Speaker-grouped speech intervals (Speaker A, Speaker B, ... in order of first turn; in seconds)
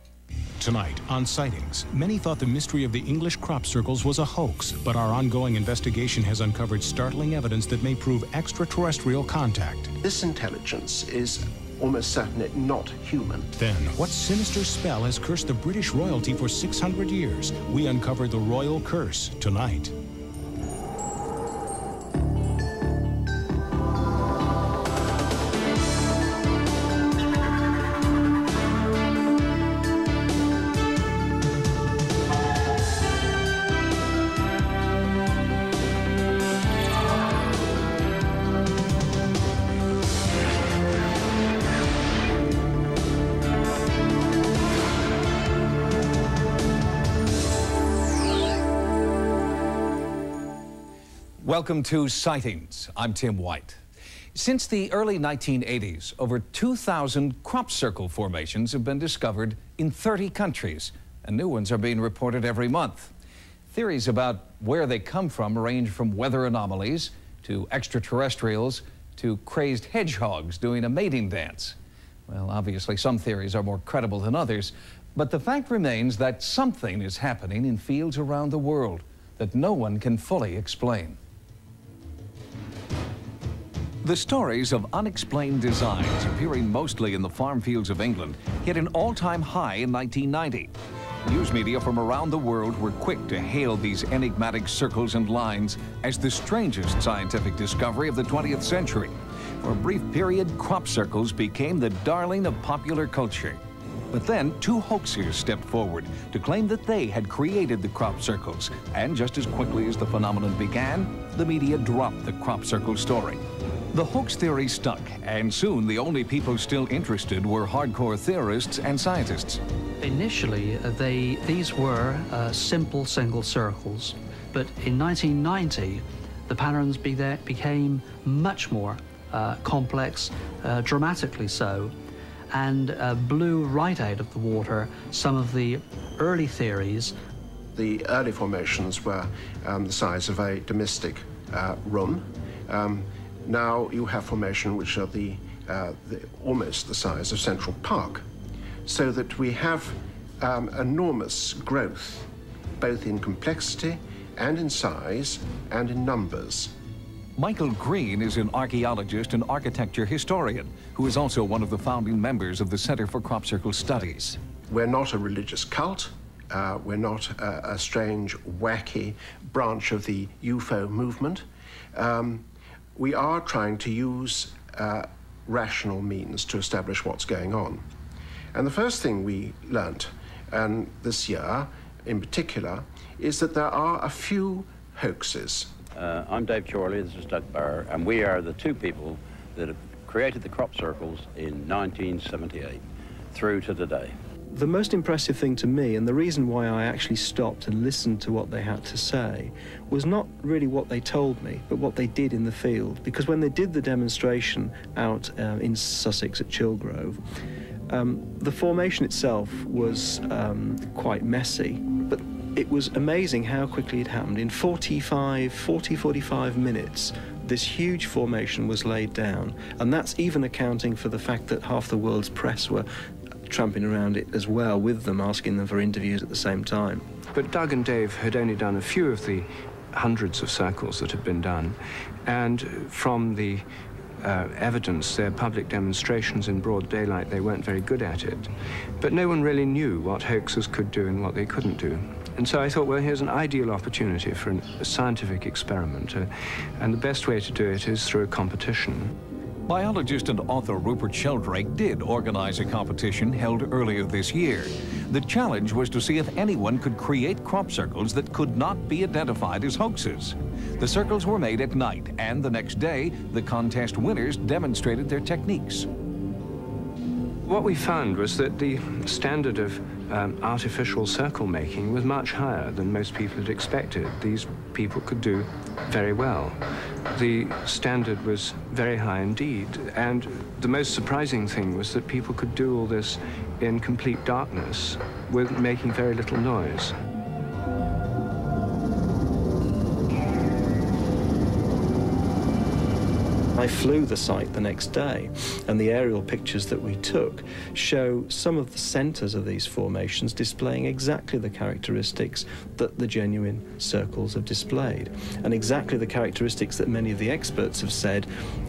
Speaker A: 0.6-9.9, 13.6-19.9
Speaker B: 10.0-13.5, 137.8-148.2, 148.9-152.3, 152.8-156.7, 164.7-177.8, 178.5-185.8
Speaker C: 51.4-53.8, 54.3-63.1, 63.7-71.8, 72.3-81.2, 84.0-90.7, 91.2-103.6, 104.1-113.4, 113.9-119.6, 157.4-164.4, 249.7-265.9
Speaker D: 120.0-131.9, 132.5-137.2
Speaker E: 185.9-192.8, 193.3-194.1
Speaker F: 194.5-207.2, 207.9-222.9, 223.5-227.1, 293.6-308.3
Speaker G: 227.3-233.7, 234.2-249.1, 267.4-287.0